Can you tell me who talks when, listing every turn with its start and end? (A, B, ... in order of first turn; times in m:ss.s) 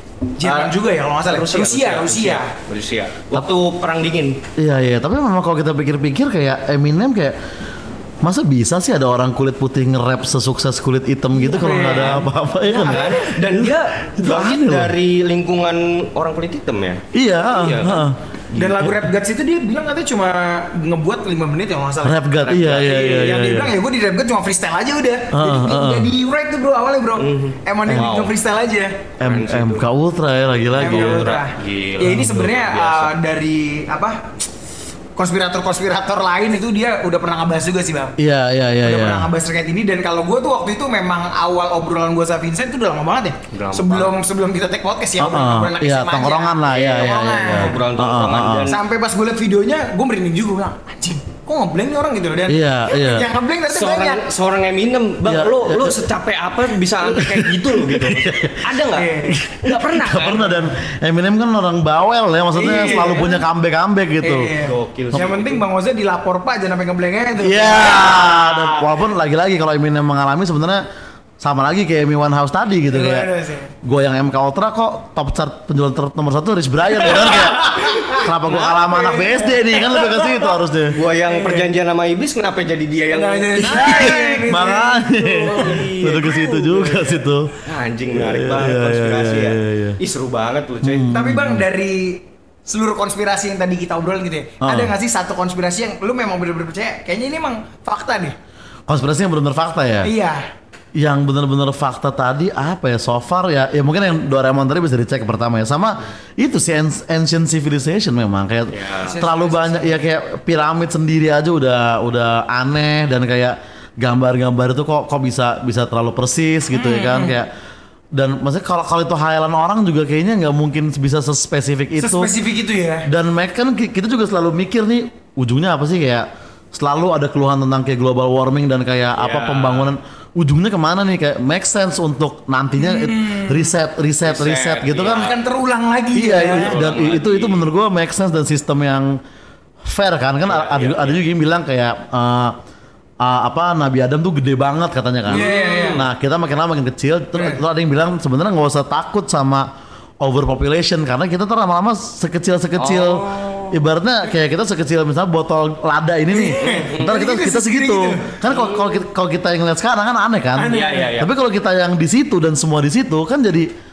0:00.4-0:02.5 A
0:00.4-0:04.4 B
0:04.6-0:07.4 C
0:08.2-0:15.0 C
0:11.3-0:12.2 A
0:11.8-0:18.8 B
0:12.8-0:13.2 A
0:17.1-0:18.2 C
0:18.5-0:22.2 A
0:18.8-0:19.1 C
0:22.0-0:23.8 C
0:22.4-0:23.1 B
0:22.8-0:29.0 A
0:25.3-0:26.1 C
0:27.2-0:28.4 B
0:29.2-0:31.3 C
0:29.2-0:29.9 B
0:30.8-0:33.1 B
0:30.8-0:34.3 A
0:32.1-0:32.5 C
0:35.2-0:38.2 A
0:38.2-0:39.3 C
0:38.8-0:47.8 A
0:43.5-0:44.2 B
0:45.2-0:48.7 C
0:46.7-0:48.8 B
0:48.7-0:54.2 A
0:52.5-0:53.3 C
0:53.7-1:00.7 B
0:55.3-0:56.0 C
0:57.0-0:58.8 C
0:58.9-0:59.4 A
0:59.4-1:04.5 C
1:02.5-1:03.4 A
1:04.2-1:08.8 A
1:04.6-1:05.6 B
1:07.4-1:10.8 C
1:11.4-1:13.3 C
1:12.9-1:13.7 A
1:13.8-1:21.0 C
1:17.0-1:20.5 A
1:18.5-1:18.9 B
1:20.9-1:24.4 B
1:21.3-1:21.7 A
1:23.1-1:26.3 A
1:23.6-1:27.6 C
1:25.5-1:31.1 B
1:28.1-1:30.0 C
1:30.8-1:31.6 C
1:31.1-1:38.4 A
1:34.6-1:34.9 C
1:38.9-1:40.1 C
1:40.0-1:40.4 A
1:41.0-1:57.5 C
1:48.7-1:49.2 B
1:49.0-1:50.1 A
1:56.8-1:57.4 A
1:58.1-2:02.3 C
2:02.0-2:03.1 A
2:03.1-2:15.3 C
2:09.2-2:09.9 B
2:12.8-2:13.7 A
2:14.2-2:15.4 B
2:15.1-2:16.8 A
2:16.2-2:19.2 C
2:16.4-2:17.7 B
2:19.8-2:22.6 C
2:20.5-2:21.2 B
2:23.2-2:29.7 C
2:25.3-2:26.0 B
2:25.3-2:26.0 A
2:27.4-2:27.6 A
2:30.2-2:43.7 C
2:32.8-2:33.5 B
2:33.2-2:33.7 A
2:36.3-2:38.4 A
2:36.7-2:37.2 B
2:38.5-2:39.0 B
2:40.6-2:41.2 A
2:40.7-2:41.3 B